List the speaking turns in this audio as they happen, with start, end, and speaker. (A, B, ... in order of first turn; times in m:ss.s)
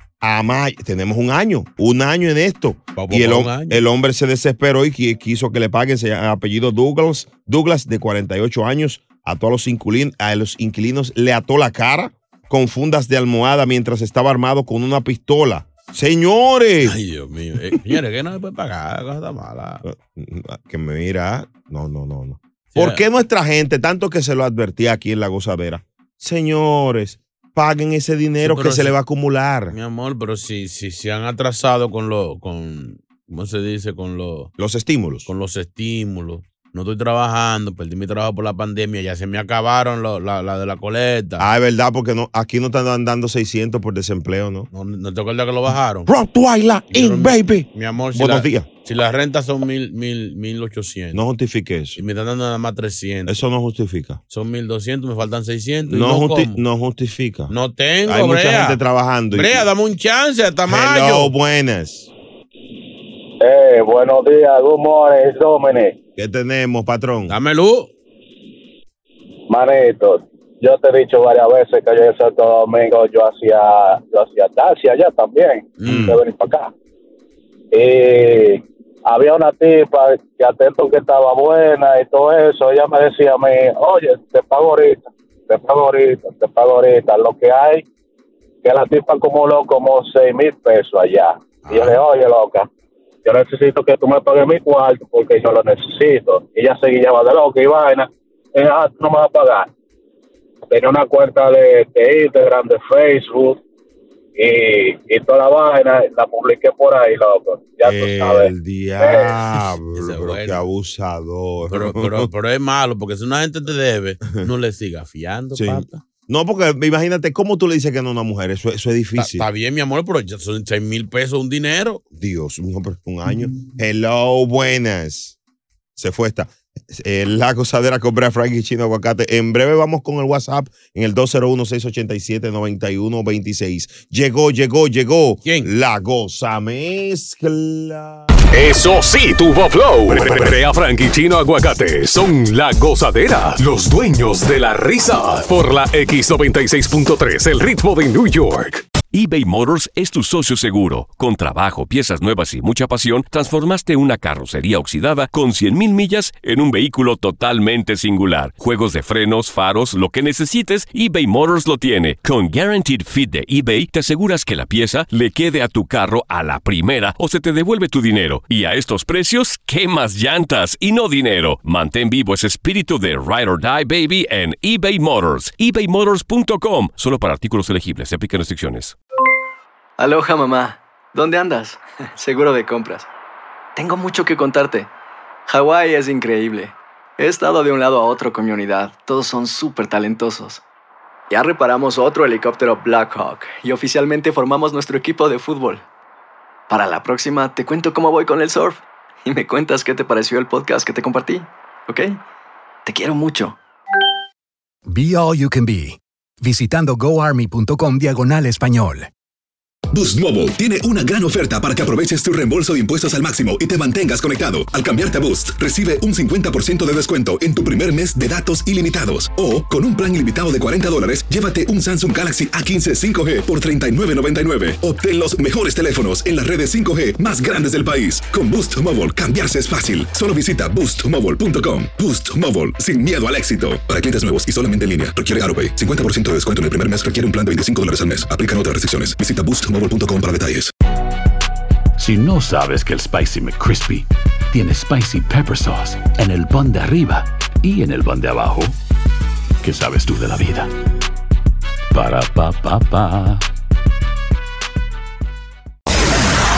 0:00.2-0:17.0 A
0:03.0-0:03.8 B
0:16.8-0:19.8 B
0:19.8-0:29.8 A
0:22.8-0:23.0 B
0:28.4-0:29.0 B
0:29.7-0:34.5 B
0:34.6-0:35.3 A
0:35.3-0:41.5 B
0:41.4-0:44.7 A
0:44.7-0:46.1 B
0:46.1-0:48.7 A
0:46.9-0:51.2 B
0:51.1-0:52.0 A
0:52.0-0:53.4 B
0:53.3-0:54.2 A
0:54.3-0:56.6 B
0:55.9-0:57.5 A
0:57.5-0:58.8 B
0:58.1-0:59.7 A
0:59.3-1:01.3 B
1:00.7-1:02.1 A
1:03.4-1:06.0 C
1:06.2-1:07.4 A
1:07.3-1:07.9 B
1:09.5-1:16.7 C
1:15.8-1:16.1 B
1:15.8-1:16.2 A
1:17.7-1:27.8 C
1:28.6-1:32.7 C
1:31.6-1:32.0 B
1:33.2-1:39.7 C
1:40.7-1:43.6 C
1:44.4-1:49.3 C
1:47.8-1:52.3 A
1:50.0-1:50.6 B
1:51.7-1:56.0 B
1:55.5-1:59.5 A
1:59.2-2:02.0 B
2:02.2-2:05.4 A
2:06.0-2:18.3 A
2:18.5-2:28.9 D
2:29.1-2:59.0 E
3:00.0-3:03.1 F
3:03.8-3:04.9 F
3:05.5-3:10.6 F
3:11.3-3:15.9 F
3:16.7-3:22.2 F
3:22.9-3:23.6 F
3:24.9-3:29.1 G
3:29.9-4:00.7 H
4:02.0-4:08.8 I
4:09.6-4:10.7 I
4:11.9-4:13.4 I